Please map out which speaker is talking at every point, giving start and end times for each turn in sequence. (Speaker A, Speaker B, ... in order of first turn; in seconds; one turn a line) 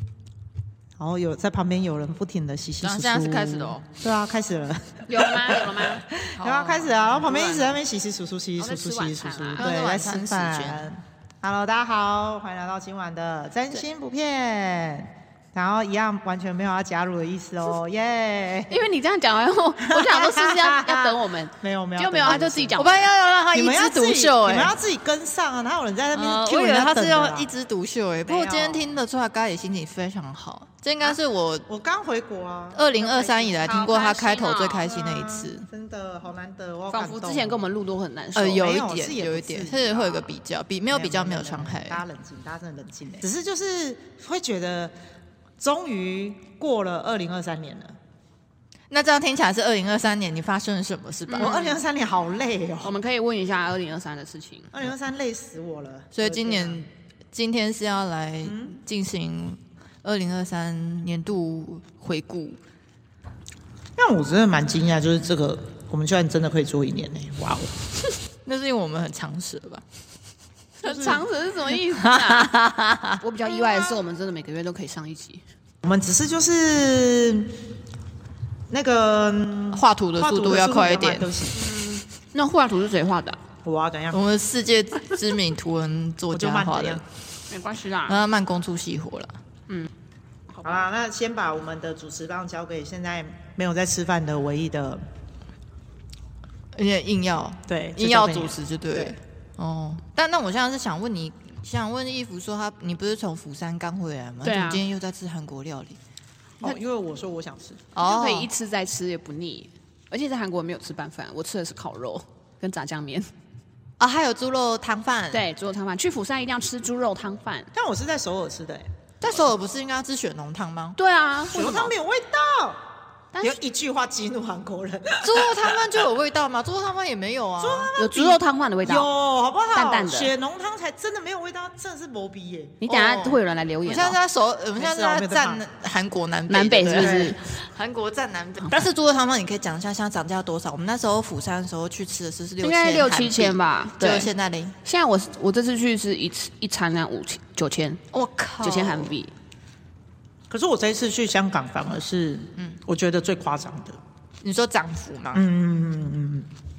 Speaker A: 1.0-18.8
Speaker B: 2.8-3.9
Speaker C: 5.0-6.0
Speaker B: 6.3-7.8
Speaker C: 8.6-9.7
Speaker B: 9.6-10.9
Speaker C: 18.7-23.1
Speaker A: 19.8-22.9
Speaker B: 22.3-24.7
Speaker A: 23.5-27.5
Speaker B: 26.1-31.7
Speaker A: 28.3-29.0
Speaker A: 31.0-33.9
Speaker B: 32.7-35.7
Speaker C: 33.6-35.0
Speaker A: 34.8-37.6
Speaker C: 36.9-38.6
Speaker B: 38.4-42.0
Speaker A: 38.5-40.3
Speaker A: 40.9-44.9
Speaker A: 45.6-48.0
Speaker B: 48.9-51.8
Speaker C: 51.3-51.6
Speaker A: 51.4-53.0
Speaker C: 52.8-54.7
Speaker A: 54.7-56.8
Speaker B: 56.1-62.6
Speaker A: 58.5-58.8
Speaker A: 64.0-67.7
Speaker B: 68.5-69.8
Speaker C: 70.8-72.5
Speaker A: 70.8-71.2
Speaker B: 71.9-73.2
Speaker C: 73.2-75.4
Speaker A: 75.8-77.6
Speaker A: 78.7-81.8
Speaker B: 79.7-81.3
Speaker C: 81.6-83.4
Speaker A: 83.6-84.2
Speaker B: 84.1-87.0
Speaker A: 86.3-87.0
Speaker C: 87.5-88.2
Speaker B: 88.1-89.4
Speaker A: 90.6-95.0
Speaker B: 96.8-106.0
Speaker A: 97.7-99.2
Speaker C: 104.4-104.8
Speaker A: 106.6-107.8
Speaker B: 108.0-108.5
Speaker C: 108.0-113.3
Speaker B: 114.0-115.5
Speaker C: 115.3-117.7
Speaker A: 117.7-118.9
Speaker B: 119.2-121.0
Speaker C: 121.0-121.5
Speaker B: 121.5-121.9
Speaker A: 121.5-122.8
Speaker A: 123.4-125.8
Speaker B: 125.2-128.0
Speaker A: 127.6-133.0
Speaker C: 128.0-129.1
Speaker C: 129.7-130.3
Speaker C: 132.8-134.2
Speaker B: 132.9-144.8
Speaker A: 134.8-135.6
Speaker C: 136.5-137.5
Speaker A: 137.0-137.4
Speaker C: 142.6-144.3
Speaker C: 144.8-148.0
Speaker B: 148.1-149.1
Speaker C: 148.6-149.3
Speaker A: 150.5-154.0
Speaker B: 154.4-155.4
Speaker A: 155.3-156.5